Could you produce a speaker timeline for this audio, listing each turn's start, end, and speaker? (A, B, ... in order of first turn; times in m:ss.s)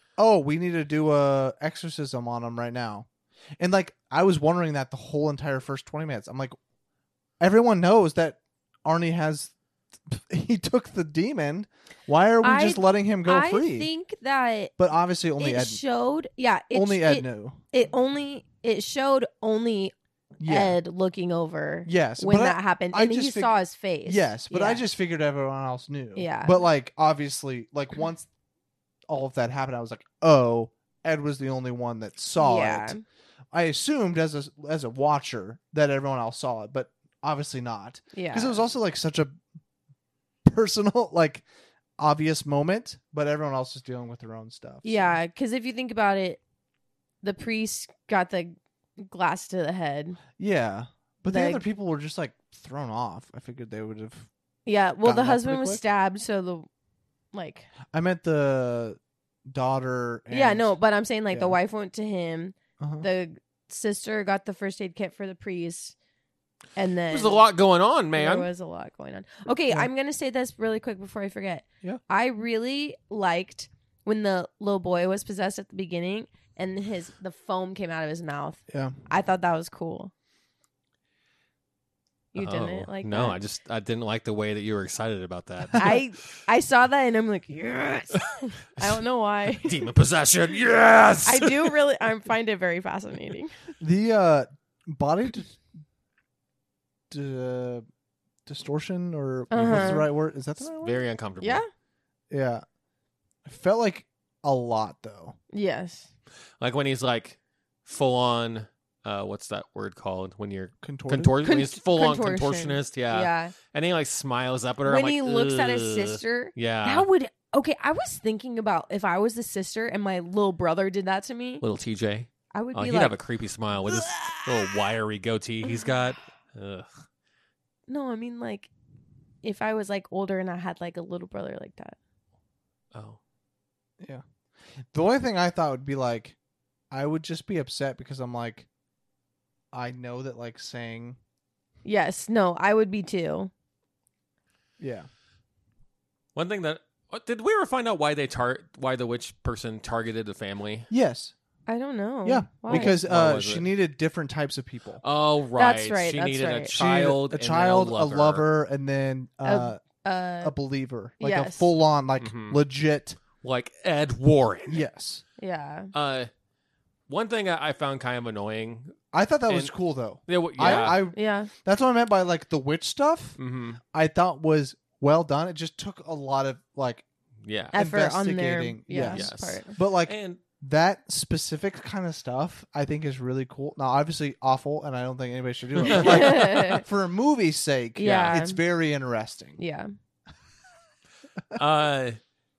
0:00.2-0:03.1 A
0:03.6-0:06.6 A
0:07.4-0:09.5 A
0:10.0-0:13.9 A
0:12.4-0:14.7 B
0:14.8-0:15.8 A
0:15.4-0:19.9 B
0:16.7-0:17.6 A
0:20.4-0:20.8 A
0:20.5-0:24.8 B
0:21.8-0:28.3 A
0:26.1-0:26.6 B
0:29.1-0:33.0 A
0:32.4-0:33.0 B
0:33.5-0:39.4 A
0:38.1-0:38.6 B
0:40.4-0:41.4 A
0:42.0-0:45.1 A
0:44.8-0:46.4 B
0:47.2-0:50.2 B
0:50.4-0:54.3 A
0:51.3-0:51.6 B
0:54.6-0:56.7 B
0:55.0-0:55.8 A
0:57.3-0:57.7 B
0:57.9-1:00.7 A
1:00.3-1:05.9 B
1:02.8-1:03.1 A
1:06.8-1:07.4 B
1:07.1-1:08.5 C
1:08.2-1:20.1 B
1:18.7-1:19.0 A
1:22.3-1:23.4 B
1:22.4-1:26.0 C
1:25.7-1:29.8 B
1:29.6-1:31.7 C
1:31.2-1:33.5 B
1:33.8-1:35.6 A
1:37.1-1:37.8 A
1:38.4-1:41.0 A
1:39.5-1:40.0 B
1:39.5-1:40.1 C
1:40.6-1:41.6 C
1:41.4-1:41.6 B
1:42.3-1:42.6 A
1:43.4-1:45.4 A
1:45.5-1:46.1 B
1:46.6-1:57.1 C
1:50.8-1:51.4 A
1:51.4-1:53.5 B
1:54.8-2:01.6 B
2:01.6-2:06.9 C
2:02.5-2:03.2 B
2:03.8-2:04.8 B
2:07.9-2:08.7 B
2:09.4-2:12.0 B
2:12.9-2:13.2 C
2:14.9-2:16.4 A
2:16.9-2:18.7 A
2:19.7-2:21.2 A
2:21.8-2:23.5 B
2:24.8-2:25.1 A
2:26.3-2:30.9 C
2:30.9-2:31.3 A
2:31.7-2:33.0 B
2:32.2-2:35.0 A
2:32.7-2:33.7 C
2:35.0-2:38.4 C
2:35.5-2:36.8 B
2:36.7-2:39.8 A
2:39.4-2:40.5 B
2:40.4-2:43.2 A
2:41.2-2:41.7 B
2:42.2-2:42.6 C
2:43.4-2:44.8 C
2:44.7-2:45.2 A
2:45.4-2:45.9 B
2:45.9-2:46.3 C
2:47.1-2:49.0 C
2:49.1-2:53.4 A
2:49.5-2:49.7 C
2:50.3-2:51.0 C
2:51.1-2:51.5 B
2:53.4-2:53.8 C
2:53.9-2:57.0 A
2:57.4-2:57.8 C
2:57.7-2:59.7 B
2:57.7-3:09.6 A
2:59.0-3:00.4 C
3:05.8-3:06.5 C
3:05.9-3:06.8 B
3:08.0-3:08.6 B
3:08.0-3:08.4 C
3:09.6-3:09.9 B
3:11.5-3:12.2 C